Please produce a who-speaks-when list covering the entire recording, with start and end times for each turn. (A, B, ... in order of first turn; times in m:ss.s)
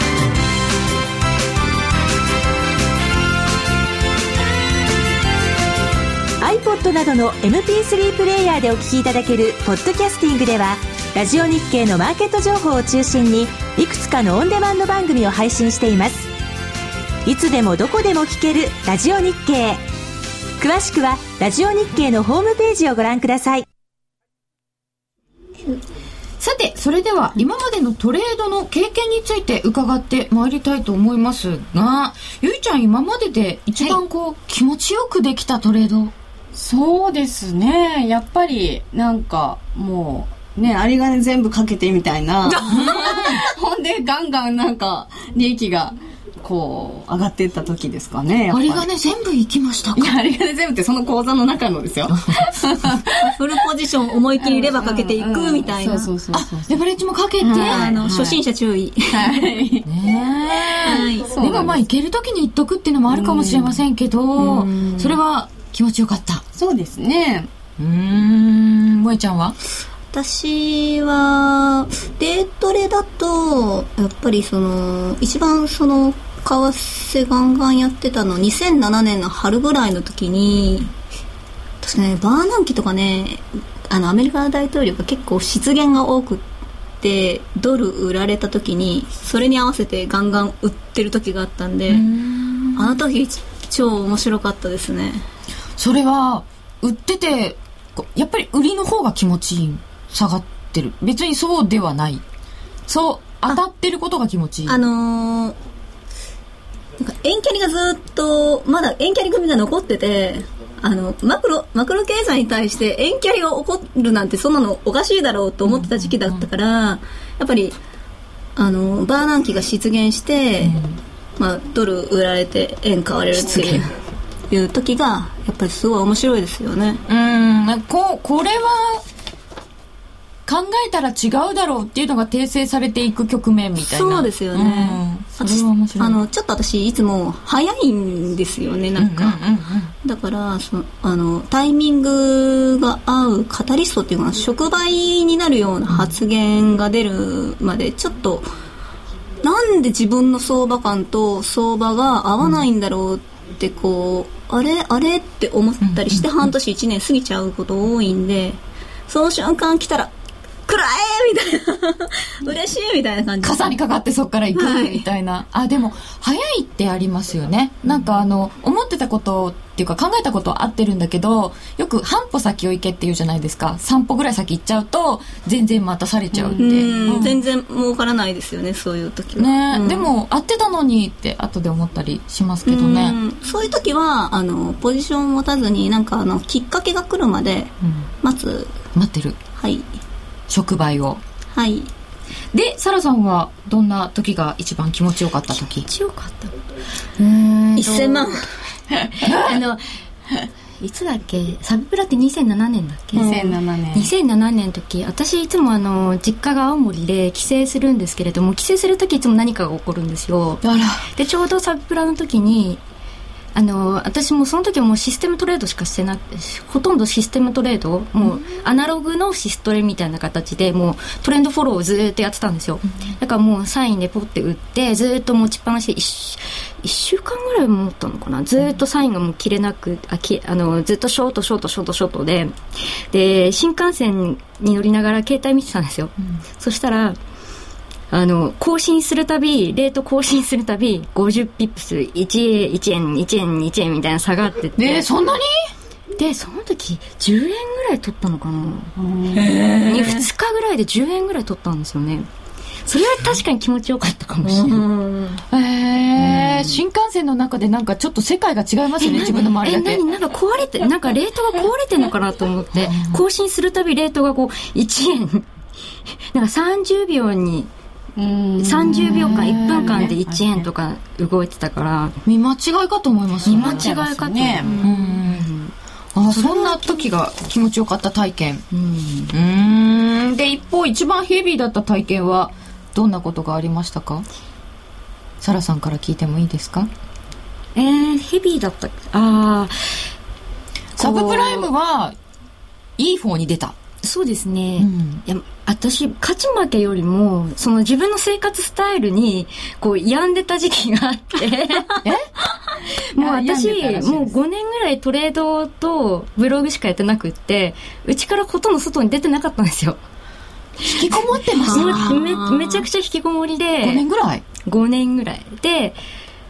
0:06.4-0:16.3 A
0:17.2-0:19.8 A
0:20.6-0:23.7 A
0:26.4-0:36.1 B
0:36.5-0:48.9 C
0:42.5-0:43.4 B
0:48.5-0:50.2 B
0:50.0-0:53.4 C
0:53.2-0:56.1 D
0:54.4-0:56.8 C
0:56.3-0:57.9 B
0:57.4-0:58.4 C
0:57.6-0:59.4 D
0:59.1-0:59.9 C
0:59.9-1:06.4 B
1:00.8-1:01.4 D
1:01.2-1:01.8 C
1:03.1-1:03.8 C
1:04.4-1:05.2 D
1:06.6-1:07.5 C
1:07.8-1:09.6 B
1:10.1-1:20.9 D
1:21.8-1:26.4 D
1:27.0-1:32.1 D
1:31.9-1:32.8 B
1:32.7-1:35.2 D
1:35.8-1:42.2 B
1:42.9-1:44.7 B
1:44.7-1:45.6 D
1:47.0-1:57.8 D
1:58.6-2:00.8 D
2:01.4-2:03.9 D
2:04.5-2:07.0 D
2:07.1-2:09.0 B
2:10.5-2:16.2 B
2:13.8-2:19.4 D
2:19.0-2:19.9 B
2:20.0-2:28.5 D
2:29.4-2:38.6 D
2:35.9-2:36.2 B
2:39.1-2:40.1 D
2:40.7-2:43.8 D
2:43.4-2:57.3 B
2:44.5-2:45.1 D
2:56.4-2:57.2 C
2:56.6-3:00.1 D
2:59.4-3:03.2 B
3:02.6-3:08.8 D
3:09.0-3:09.4 B
3:09.6-3:09.9 D
3:10.5-3:11.2 B
3:11.5-3:11.9 D
3:12.5-3:15.8 B
3:15.6-3:16.5 E
3:17.3-3:18.0 B
3:17.8-3:18.5 D
3:19.2-3:19.8 E
3:20.8-3:23.4 E
3:23.2-3:23.5 D
3:23.2-3:24.1 C
3:23.9-3:32.8 E
3:30.6-3:30.9 B
3:33.5-3:52.6 E
3:53.1-3:57.2 E
3:58.1-4:05.1 E
4:04.8-4:05.5 B
4:06.2-4:08.9 E
4:09.0-4:09.5 C
4:09.3-4:10.3 D
4:09.8-4:12.3 E
4:12.9-4:14.8 E
4:14.4-4:15.4 D
4:15.5-4:20.0 B
4:19.0-4:25.5 E
4:22.9-4:23.2 B
4:26.3-4:27.7 E
4:28.2-4:30.7 C
4:28.6-4:32.2 E
4:28.9-4:30.0 B
4:32.3-4:33.8 B
4:33.4-4:34.8 C
4:33.4-4:35.7 E
4:34.8-4:35.5 B
4:36.2-4:38.6 B
4:36.3-4:37.1 E
4:38.7-4:39.4 E
4:39.3-4:44.2 B
4:45.4-4:46.9 B
4:47.8-4:50.0 E
4:51.0-4:51.7 E
4:51.0-4:52.2 B
4:53.0-4:53.7 B
4:54.0-5:02.0 E
4:54.8-4:55.2 B
5:03.1-5:10.0 E
5:03.2-5:04.3 C
5:10.9-5:12.1 B
5:10.9-5:14.0 E
5:11.6-5:12.8 D
5:13.8-5:14.4 B
5:14.6-5:16.0 E